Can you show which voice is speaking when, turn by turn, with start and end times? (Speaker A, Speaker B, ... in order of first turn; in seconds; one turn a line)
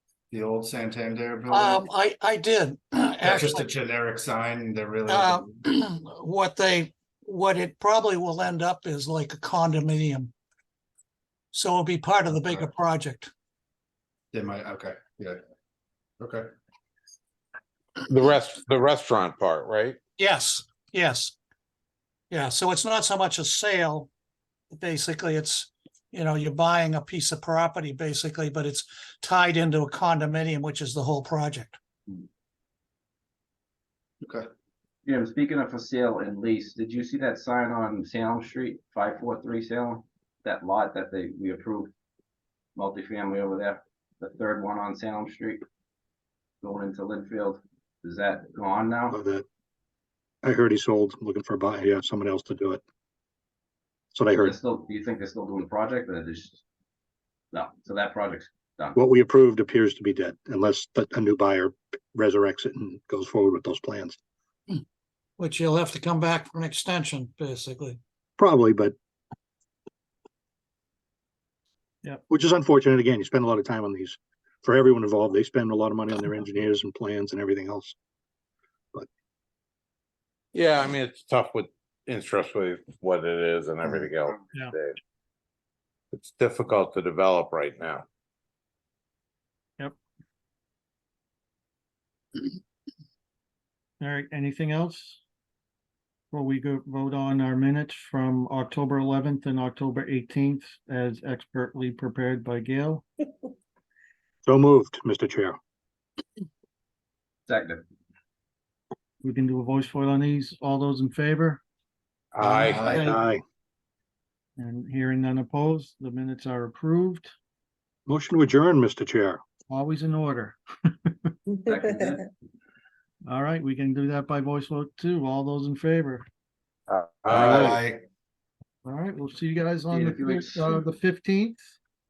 Speaker A: 0.3-1.8
Speaker B: 1.5-3.7
Speaker A: 3.2-5.5
Speaker B: 5.1-10.3
Speaker B: 11.5-13.3
Speaker A: 14.3-15.4
Speaker A: 16.2-16.5
Speaker C: 18.0-20.0
Speaker B: 20.2-21.4
Speaker B: 22.3-24.1
Speaker B: 24.7-31.8
Speaker D: 35.0-41.9
Speaker D: 42.8-45.6
Speaker D: 46.6-49.2
Speaker E: 49.1-49.5
Speaker E: 50.4-52.8
Speaker E: 54.1-54.6
Speaker D: 54.4-56.6
Speaker D: 57.5-59.0
Speaker E: 59.0-64.2
Speaker B: 65.4-68.0
Speaker E: 68.4-69.0
Speaker E: 72.3-78.0
Speaker C: 80.5-85.0
Speaker C: 86.1-88.0
Speaker F: 94.0-95.2
Speaker F: 96.3-103.1
Speaker E: 104.4-105.6
Speaker D: 107.5-107.8
Speaker F: 109.2-111.6
Speaker C: 112.3-113.2
Speaker F: 112.4-113.2
Speaker A: 112.7-113.0
Speaker E: 113.0-113.4
Speaker F: 114.6-117.3
Speaker E: 118.1-119.4
Speaker F: 119.7-120.6
Speaker D: 121.7-122.3
Speaker F: 123.2-126.3
Speaker C: 126.9-127.8
Speaker A: 127.3-128.0
Speaker F: 128.8-131.8
Speaker D: 129.9-130.8